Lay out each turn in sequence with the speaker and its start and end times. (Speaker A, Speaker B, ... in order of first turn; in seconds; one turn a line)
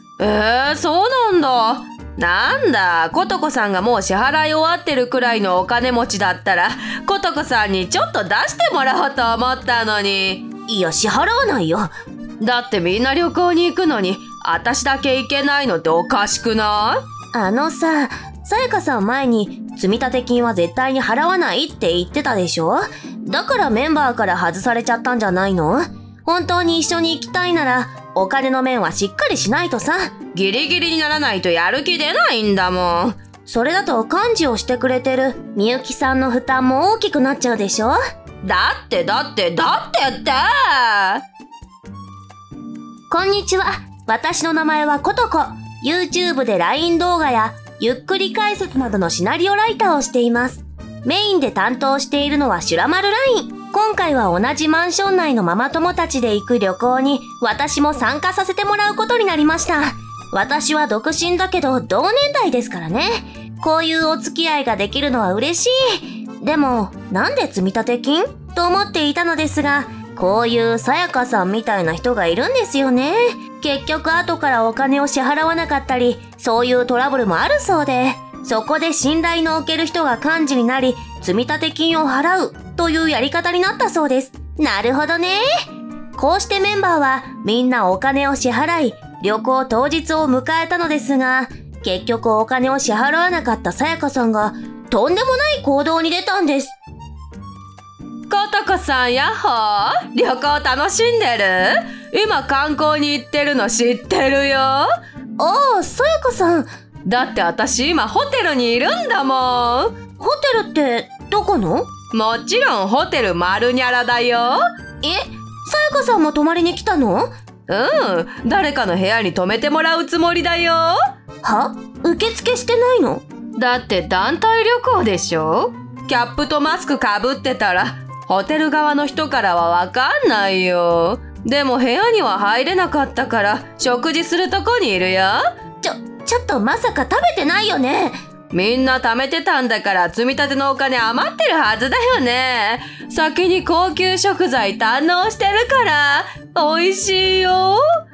Speaker A: 0.2-10.4
Speaker B: 10.7-11.9
Speaker A: 12.4-17.0
Speaker B: 17.3-30.1
Speaker A: 30.3-33.1
Speaker B: 33.5-38.0
Speaker A: 38.4-41.2
Speaker B: 43.1-85.4
Speaker B: 86.2-96.8
Speaker A: 98.3-104.9
Speaker B: 105.4-106.7
Speaker A: 107.0-109.9
Speaker B: 110.2-111.9
Speaker A: 112.1-114.6
Speaker B: 115.0-117.3
Speaker A: 117.7-121.0
Speaker B: 121.4-123.2
Speaker A: 123.5-135.4
Speaker B: 135.8-138.2
Speaker A: 138.5-147.8